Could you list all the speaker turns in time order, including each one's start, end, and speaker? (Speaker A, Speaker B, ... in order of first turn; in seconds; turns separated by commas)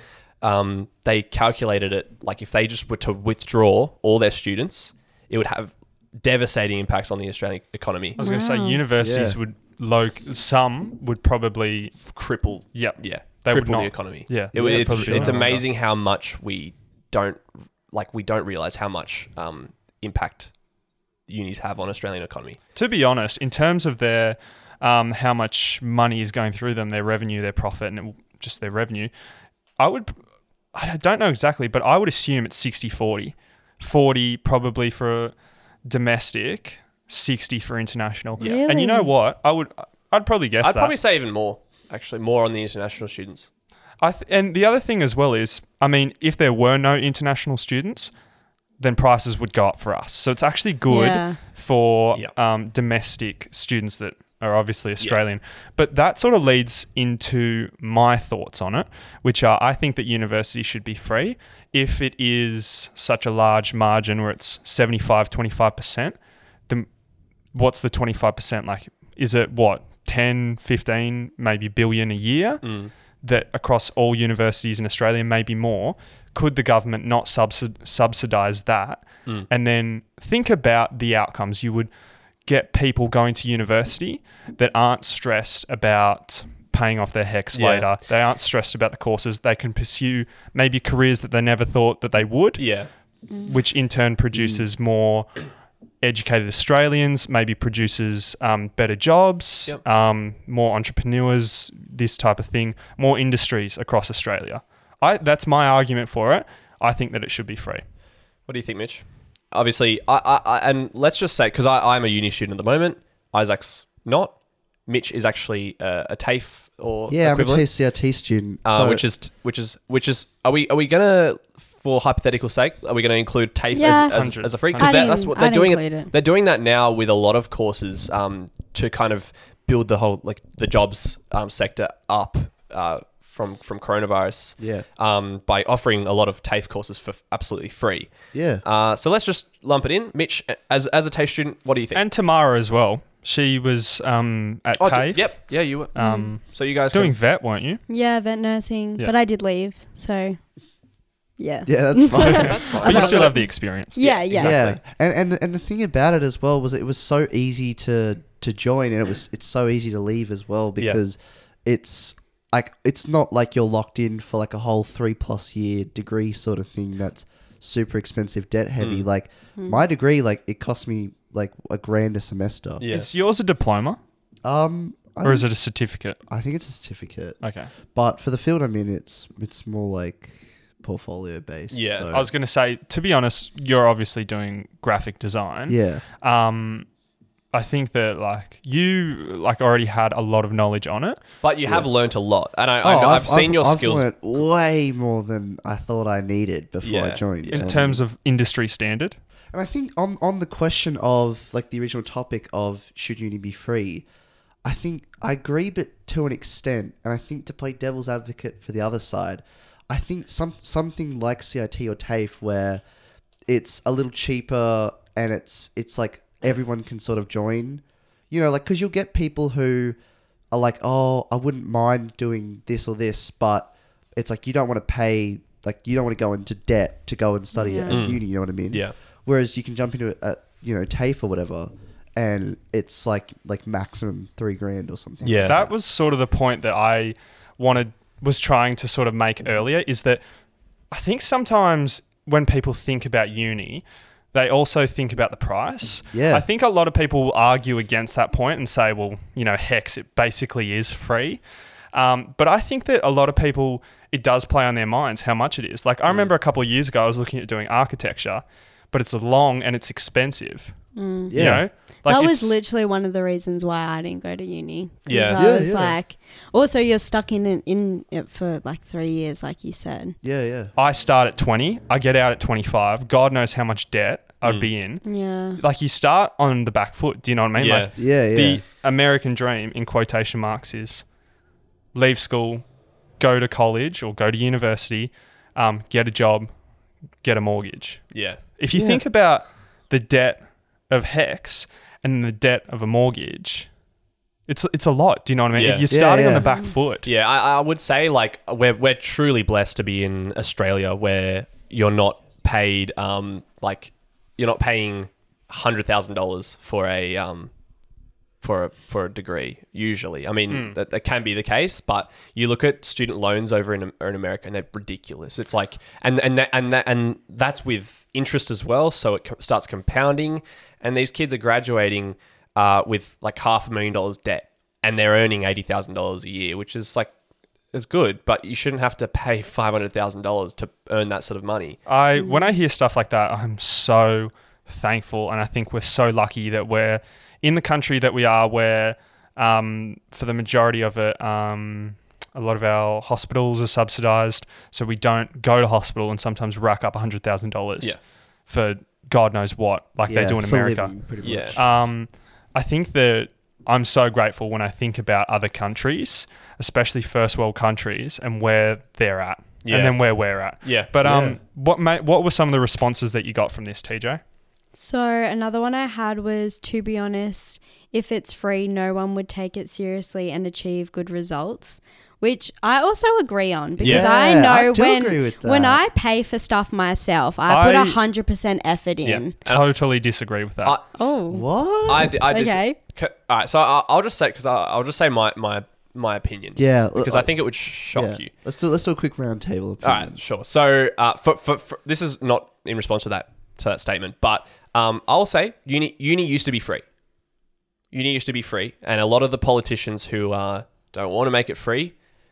Speaker A: 0.4-8.2, Speaker B: 8.2-8.8, Speaker C: 8.2-12.1, Speaker D: 9.0-9.4, Speaker A: 12.1-20.5, Speaker C: 12.7-15.6, Speaker D: 14.5-15.4, Speaker A: 21.3-22.6, Speaker C: 22.7-29.1, Speaker C: 29.8-30.2, Speaker C: 30.7-40.9, Speaker B: 38.4-39.1, Speaker A: 40.6-43.5, Speaker C: 44.0-48.1, Speaker C: 48.8-66.9, Speaker B: 50.9-51.4, Speaker C: 67.5-81.9, Speaker A: 72.6-72.9, Speaker C: 82.4-92.8, Speaker A: 87.5-88.0, Speaker A: 92.6-92.9, Speaker C: 93.4-95.5, Speaker D: 94.3-94.6, Speaker C: 96.0-107.8, Speaker A: 108.5-114.3, Speaker A: 114.8-117.7, Speaker D: 117.1-119.0, Speaker A: 118.6-138.1, Speaker B: 123.7-124.2, Speaker C: 124.0-125.2, Speaker B: 124.8-126.1, Speaker D: 134.6-134.8, Speaker D: 138.3-138.6, Speaker A: 138.6-142.0, Speaker C: 141.9-147.8, Speaker A: 144.8-147.2, Speaker B: 145.9-146.3, Speaker B: 147.9-150.4, Speaker B: 151.4-154.6, Speaker D: 151.6-152.7, Speaker A: 152.3-153.3, Speaker C: 152.8-154.1, Speaker A: 154.0-154.8, Speaker D: 154.4-172.8, Speaker A: 168.8-169.1, Speaker B: 169.6-169.8, Speaker A: 172.8-173.1, Speaker C: 172.9-174.0, Speaker D: 174.4-175.5, Speaker C: 175.2-176.2, Speaker D: 176.3-177.4, Speaker C: 177.4-177.7, Speaker D: 177.9-182.3, Speaker A: 181.7-182.1, Speaker C: 182.1-186.9, Speaker D: 185.7-186.0, Speaker C: 187.5-191.2, Speaker A: 191.4-194.1, Speaker D: 192.8-198.0, Speaker A: 196.8-197.7, Speaker C: 197.4-199.2, Speaker D: 199.5-204.1, Speaker D: 204.6-212.8, Speaker D: 213.5-219.9, Speaker D: 220.5-235.7, Speaker B: 227.5-228.0, Speaker A: 227.9-228.9, Speaker A: 235.2-235.6, Speaker C: 235.4-240.2, Speaker C: 240.9-260.8, Speaker D: 246.1-246.4, Speaker B: 260.9-270.1, Speaker D: 261.3-261.6, Speaker C: 261.3-262.6, Speaker A: 265.1-265.4, Speaker D: 265.4-265.9, Speaker D: 270.2-270.7, Speaker C: 270.8-281.1, Speaker A: 274.4-274.7, Speaker B: 275.0-275.6, Speaker A: 277.6-277.9, Speaker D: 277.9-278.6, Speaker C: 281.9-282.7, Speaker C: 283.2-286.5, Speaker C: 287.2-293.7, Speaker A: 288.1-288.4, Speaker D: 288.7-289.0, Speaker C: 294.5-297.1, Speaker A: 295.5-295.9, Speaker D: 295.9-296.5, Speaker B: 296.4-296.7, Speaker A: 297.0-307.5, Speaker A: 308.4-327.1, Speaker C: 310.5-310.8, Speaker A: 327.7-331.8, Speaker C: 331.9-350.9, Speaker B: 332.1-332.5, Speaker D: 350.1-351.6, Speaker A: 351.2-351.6, Speaker C: 351.5-364.2, Speaker A: 359.6-360.9, Speaker D: 361.0-361.4, Speaker B: 364.7-379.3, Speaker A: 373.8-374.1, Speaker D: 373.8-375.8, Speaker C: 377.4-378.0, Speaker A: 379.0-379.7, Speaker C: 379.4-380.8, Speaker A: 380.6-381.1, Speaker B: 381.0-381.5, Speaker D: 381.3-382.2, Speaker A: 381.9-388.3, Speaker B: 382.1-382.8, Speaker D: 386.6-387.3, Speaker D: 387.9-390.2, Speaker A: 389.8-396.8, Speaker A: 397.9-401.9